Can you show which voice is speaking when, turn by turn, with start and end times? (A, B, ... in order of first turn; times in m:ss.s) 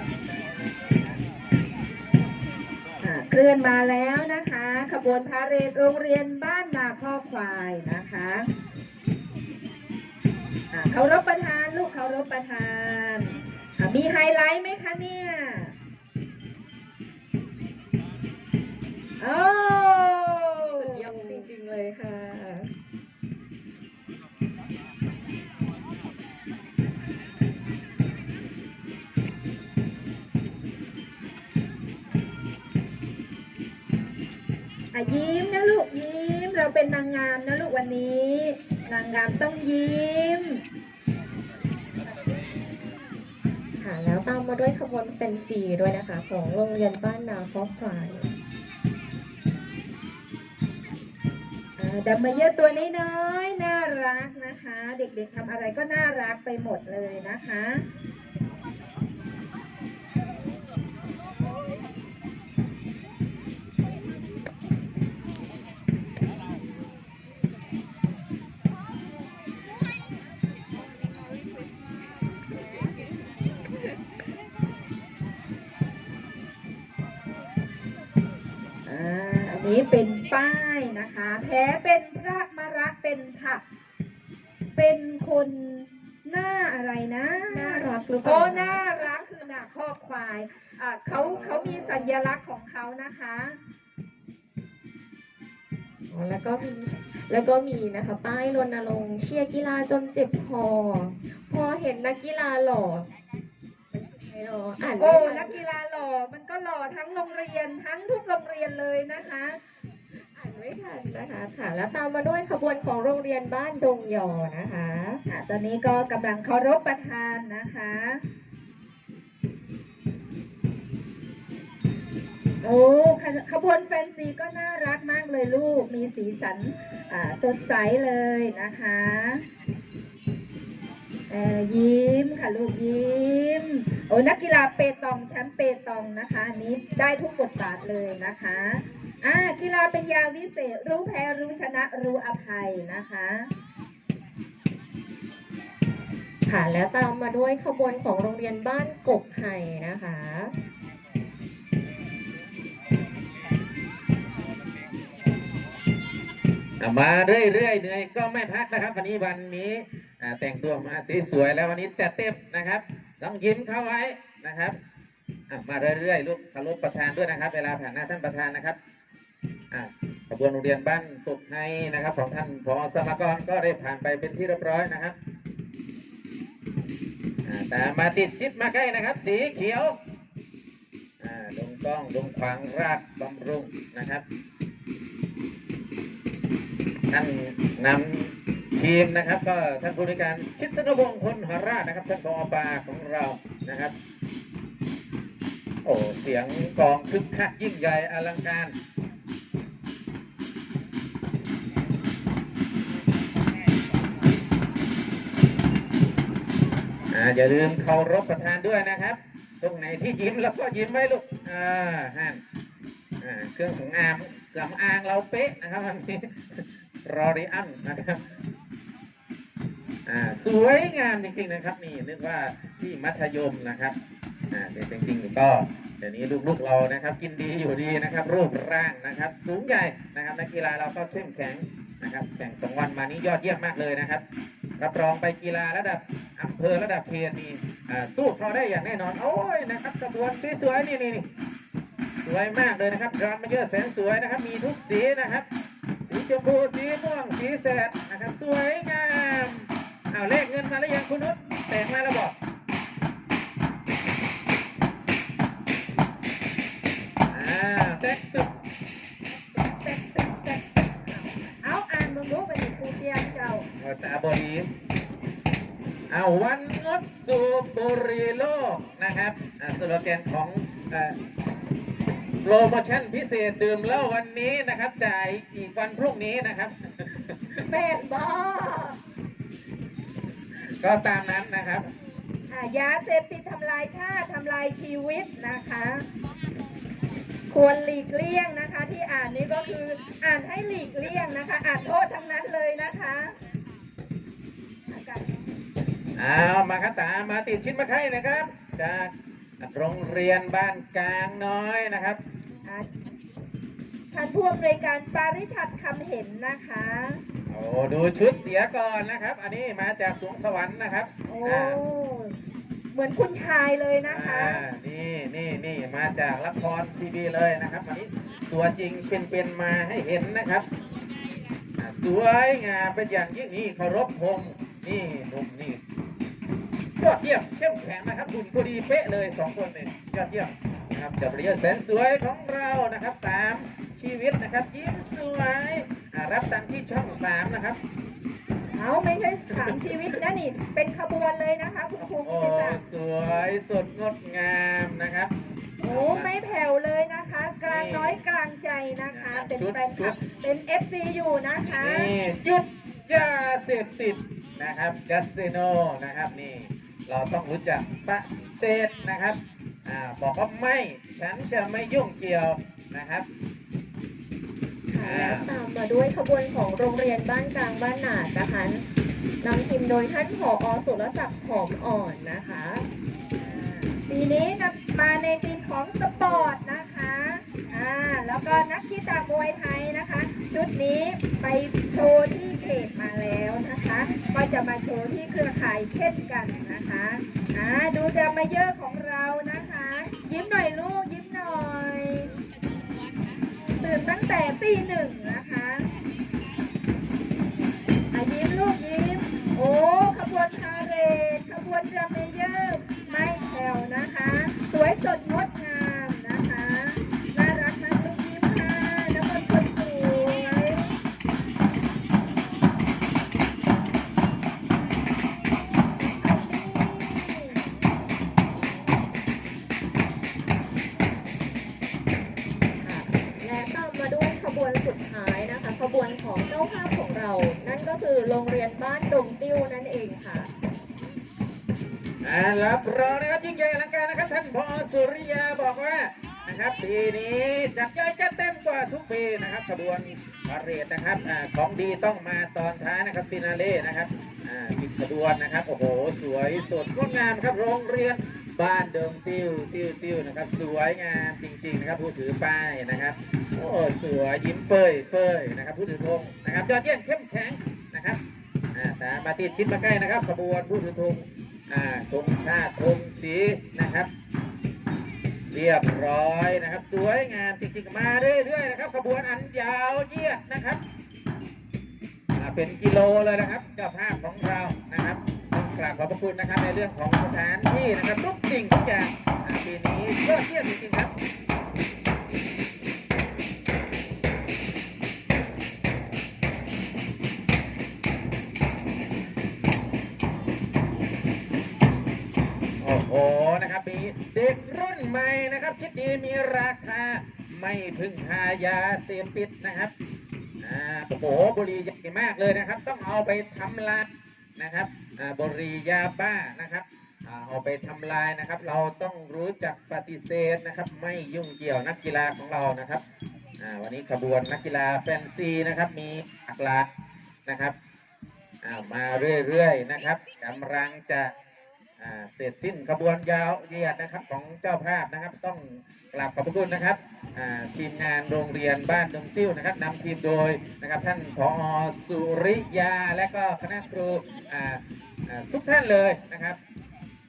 0:03.0-0:08.5 A
0:10.7-0:15.7 A
0:19.2-0:21.4 A
0:20.7-0:22.7 B
0:34.9-0:40.6 A
0:43.8-0:48.3 B
0:51.8-0:57.8 A
1:18.8-1:23.6 A
1:24.8-1:33.6 A
1:27.5-1:28.8 B
1:31.1-1:32.2 B
1:36.1-1:43.1 B
1:43.9-1:45.6 B
1:45.0-1:49.6 A
1:50.3-1:55.2 B
1:55.3-1:58.2 A
2:02.6-2:09.4 A
2:11.3-2:23.5 A
2:26.5-2:30.5 B
2:36.8-2:44.8 C
2:45.5-2:48.8 C
2:49.7-2:55.2 C
2:57.4-3:00.0 C
3:01.2-3:04.2 C
3:07.1-3:13.9 C
3:15.8-3:18.7 C
3:27.1-3:32.4 C
3:33.2-3:38.2 C
3:40.0-3:43.9 C
3:44.5-3:54.2 C
3:54.8-4:01.2 C
4:02.2-4:05.5 C
4:06.1-4:12.4 C
4:17.3-4:18.5 C
4:19.5-4:23.6 A
4:23.8-4:24.7 C
4:26.1-4:31.2 C
4:32.4-4:37.6 C
4:37.7-4:38.0 B
4:37.8-4:38.9 A
4:40.6-4:41.9 C
4:42.5-4:46.0 A
4:47.5-4:53.3 A
4:54.9-4:55.2 A
4:56.2-5:02.2 C
5:04.1-5:07.2 A
5:07.5-5:11.8 C
5:11.3-5:12.3 A
5:12.9-5:14.6 A
5:14.0-5:20.7 C
5:21.8-5:25.8 C
5:27.0-5:37.8 C
5:38.7-5:42.8 A
5:42.2-5:45.3 C
5:45.8-5:52.1 A
5:45.8-5:46.3 C
5:47.7-5:48.2 C
5:49.1-5:50.2 C
5:51.8-6:03.2 C
6:04.9-6:08.8 B
6:04.9-6:05.5 C
6:09.4-6:12.8 B
6:13.4-6:32.3 A
6:33.8-6:35.9 A
6:38.1-6:50.9 A
6:56.2-6:57.7 A
7:02.8-7:10.5 B
7:12.2-7:38.2 C
7:38.7-7:44.1 C
7:45.5-7:50.8 C
7:52.4-8:01.1 C
8:12.8-8:19.9 C
8:20.6-8:33.0 C
8:33.6-8:36.8 C
8:37.4-8:37.7 C
8:38.6-8:41.3 C
8:42.0-8:56.6 C